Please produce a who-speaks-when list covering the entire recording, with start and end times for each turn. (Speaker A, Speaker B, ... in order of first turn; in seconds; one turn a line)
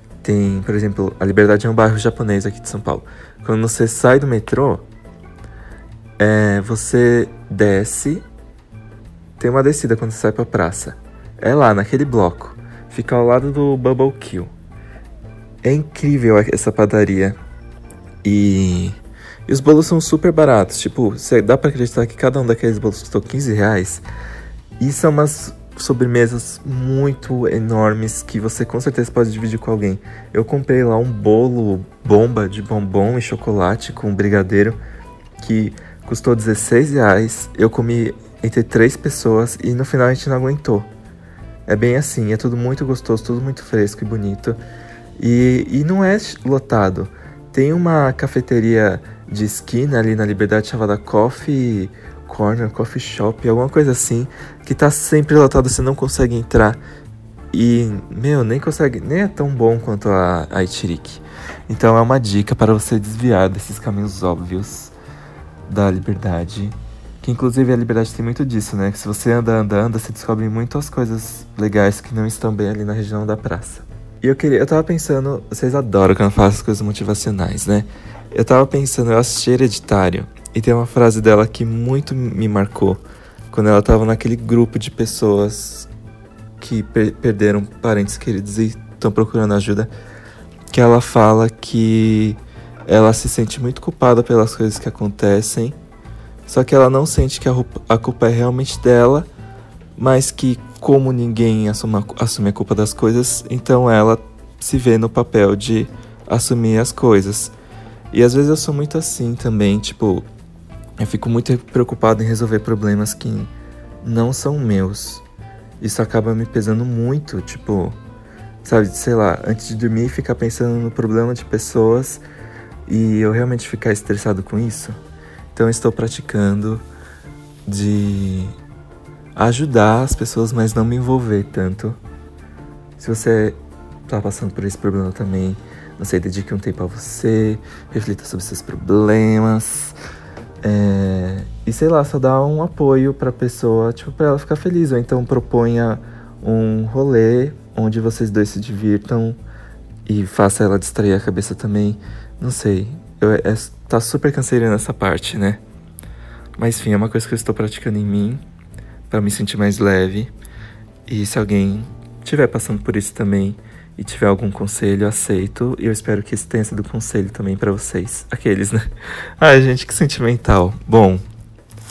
Speaker A: 0.2-4.8
Speaker A: 6.2-8.2
Speaker A: 9.4-14.5
Speaker A: 15.6-17.4
Speaker A: 18.2-18.9
Speaker A: 19.5-24.0
Speaker A: 24.8-34.8
Speaker A: 35.4-40.9
Speaker A: 41.7-44.6
Speaker A: 45.2-56.8
Speaker A: 57.5-64.9
Speaker A: 65.7-83.0
Speaker A: 83.5-85.9
Speaker A: 86.6-89.9
Speaker A: 90.7-95.8
Speaker A: 96.5-99.3
Speaker A: 100.0-107.5
Speaker A: 108.1-110.2
Speaker A: 111.0-113.5
Speaker A: 114.0-115.2
Speaker A: 115.8-117.9
Speaker A: 118.6-122.2
Speaker A: 122.9-125.0
Speaker A: 125.5-126.8
Speaker A: 127.7-128.5
Speaker A: 129.3-132.0
Speaker A: 133.0-139.9
Speaker A: 140.6-149.4
Speaker A: 150.1-155.6
Speaker A: 156.6-158.4
Speaker A: 159.1-160.3
Speaker A: 161.1-168.9
Speaker A: 169.4-171.2